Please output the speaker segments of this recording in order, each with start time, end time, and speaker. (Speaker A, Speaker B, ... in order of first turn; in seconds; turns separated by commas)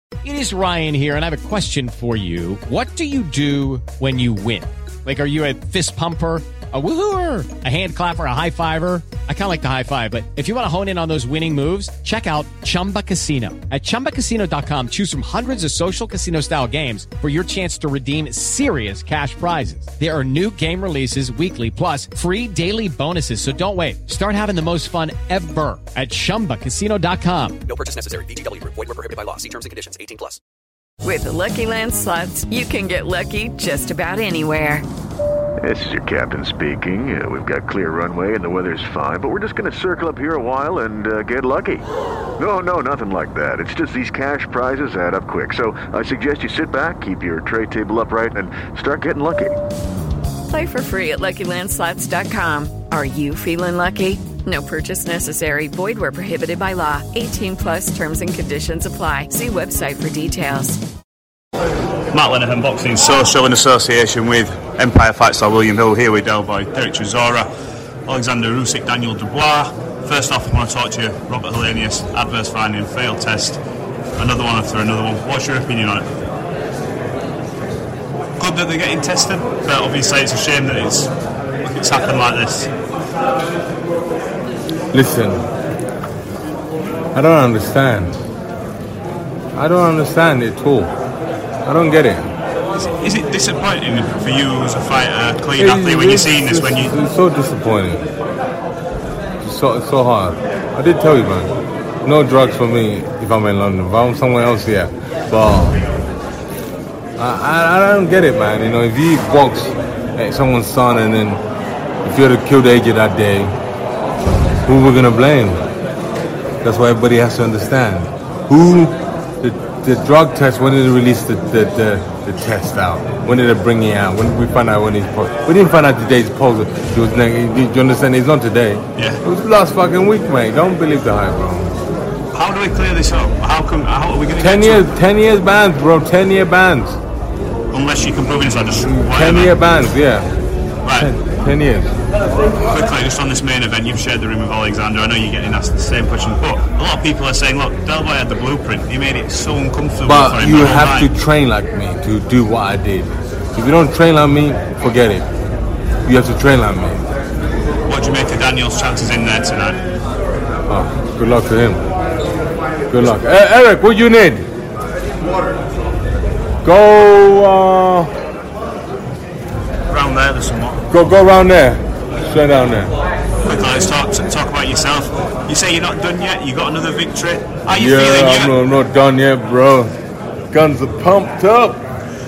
Speaker A: 0.2-27.6, Speaker B: 27.7-30.4, Speaker C: 31.0-34.9, Speaker D: 35.6-41.9, Speaker D: 42.4-49.6, Speaker C: 50.5-60.8, Speaker E: 62.1-67.5, Speaker E: 68.1-73.6, Speaker E: 74.2-76.1, Speaker E: 78.4-81.1, Speaker E: 81.6-82.7, Speaker F: 84.9-85.4, Speaker F: 87.2-88.2, Speaker F: 89.6-90.9, Speaker F: 91.7-92.3, Speaker E: 92.8-96.9, Speaker F: 95.6-98.0, Speaker F: 99.4-101.5, Speaker F: 102.0-105.8, Speaker F: 107.2-111.4, Speaker F: 112.0-113.5, Speaker F: 114.7-115.6, Speaker F: 116.6-131.8, Speaker E: 129.0-129.2, Speaker E: 132.3-134.9, Speaker F: 134.3-137.0, Speaker E: 137.7-139.6, Speaker F: 139.0-140.3, Speaker E: 140.8-141.1, Speaker F: 141.0-141.9, Speaker E: 142.6-151.1, Speaker F: 150.0-155.3, Speaker F: 156.1-157.1, Speaker E: 157.9-159.8, Speaker F: 160.7-161.8, Speaker F: 162.9-164.4, Speaker F: 166.6-168.1, Speaker E: 169.9-171.0, Speaker F: 170.9-172.9, Speaker E: 173.4-178.6, Speaker F: 177.7-179.9, Speaker F: 180.5-181.8